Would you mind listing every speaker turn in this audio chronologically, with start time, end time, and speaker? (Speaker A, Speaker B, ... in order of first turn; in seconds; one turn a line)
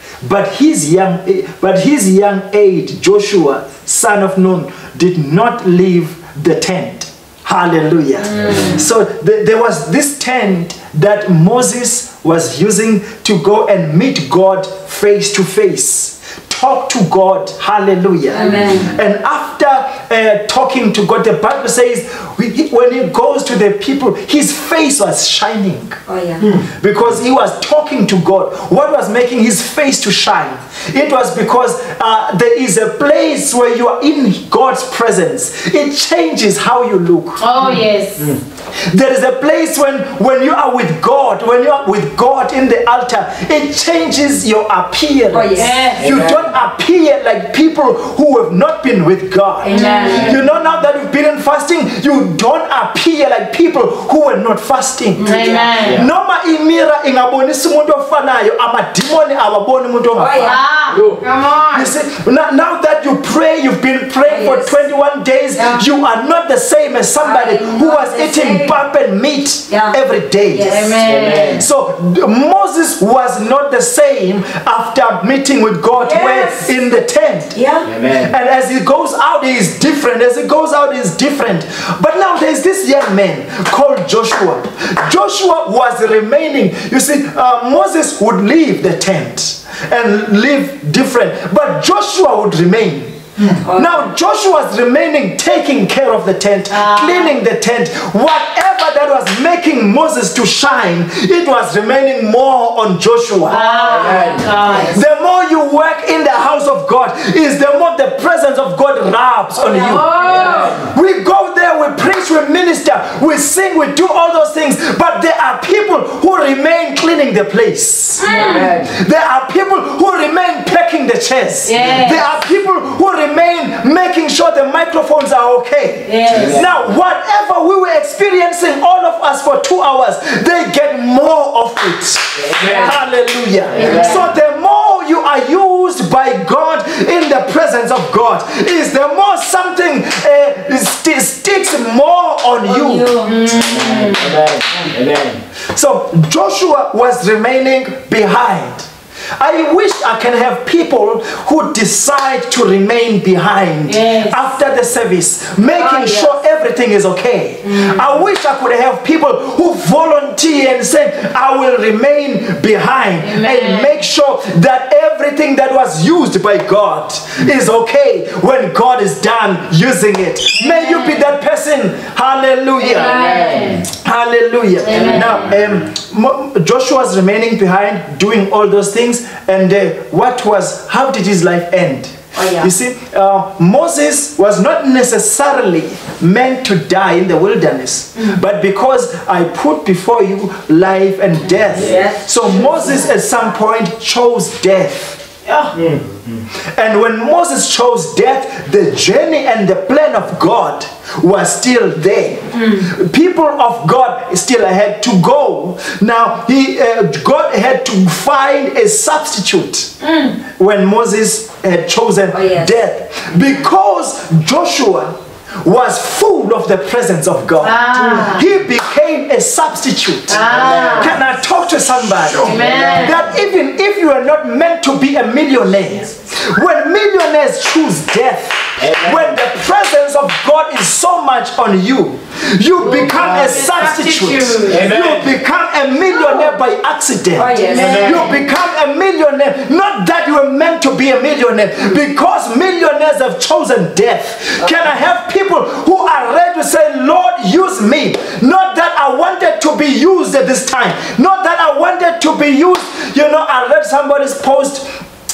Speaker A: 0.2-26.0
Speaker B: 8.2-8.8
Speaker C: 18.3-18.9
Speaker B: 18.4-18.9
Speaker C: 26.1-26.5
Speaker A: 26.6-37.5
Speaker B: 37.4-38.3
Speaker D: 37.6-38.4
Speaker A: 38.8-60.6
Speaker C: 45.3-45.8
Speaker B: 45.5-46.0
Speaker D: 46.0-46.5
Speaker C: 49.6-50.4
Speaker B: 49.7-50.5
Speaker C: 55.1-55.9
Speaker B: 55.2-56.0
Speaker D: 55.8-56.1
Speaker C: 60.2-60.6
Speaker B: 60.4-62.0
Speaker D: 60.9-61.2
Speaker A: 61.6-104.1
Speaker C: 64.2-64.8
Speaker B: 65.6-65.8
Speaker C: 67.2-68.8
Speaker C: 69.7-70.0
Speaker C: 70.5-71.1
Speaker B: 70.6-71.7
Speaker D: 71.0-71.7
Speaker C: 75.9-76.7
Speaker C: 77.5-77.9
Speaker D: 77.8-78.3
Speaker C: 93.6-94.1
Speaker B: 96.7-97.3
Speaker B: 103.5-105.0
Speaker D: 103.8-104.6
Speaker C: 104.1-105.0
Speaker A: 104.7-143.2
Speaker B: 109.6-110.8
Speaker C: 109.7-110.7
Speaker D: 110.3-110.9
Speaker B: 118.2-118.7
Speaker D: 118.2-118.9
Speaker B: 121.7-122.3
Speaker B: 126.1-126.6
Speaker D: 126.3-126.8
Speaker D: 132.4-133.0
Speaker D: 133.6-134.3
Speaker B: 133.8-134.3
Speaker C: 142.6-143.4
Speaker B: 143.2-144.4
Speaker D: 143.5-145.4
Speaker A: 145.7-173.2
Speaker B: 153.9-154.4
Speaker C: 155.7-156.3
Speaker B: 157.7-158.1
Speaker B: 163.2-164.0
Speaker B: 170.6-171.3
Speaker C: 172.8-173.8
Speaker B: 172.8-173.9
Speaker D: 173.2-173.8
Speaker A: 173.9-195.3
Speaker B: 174.8-175.6
Speaker D: 174.9-175.8
Speaker C: 182.3-182.7
Speaker C: 191.7-193.6
Speaker D: 191.8-192.0
Speaker B: 195.5-195.7
Speaker D: 195.7-196.4
Speaker A: 196.7-209.9
Speaker B: 202.6-202.9
Speaker B: 210.0-210.4
Speaker A: 210.5-254.9
Speaker C: 212.3-212.8
Speaker C: 213.3-213.6
Speaker B: 217.6-218.5
Speaker B: 220.3-221.2
Speaker D: 220.4-221.2
Speaker C: 220.7-221.0
Speaker B: 222.4-223.2
Speaker C: 222.4-223.3
Speaker D: 228.8-229.4
Speaker B: 232.8-234.8
Speaker D: 234.7-235.3
Speaker B: 236.1-236.4
Speaker C: 237.3-238.3
Speaker B: 237.6-238.4
Speaker D: 237.7-238.3
Speaker C: 244.6-244.9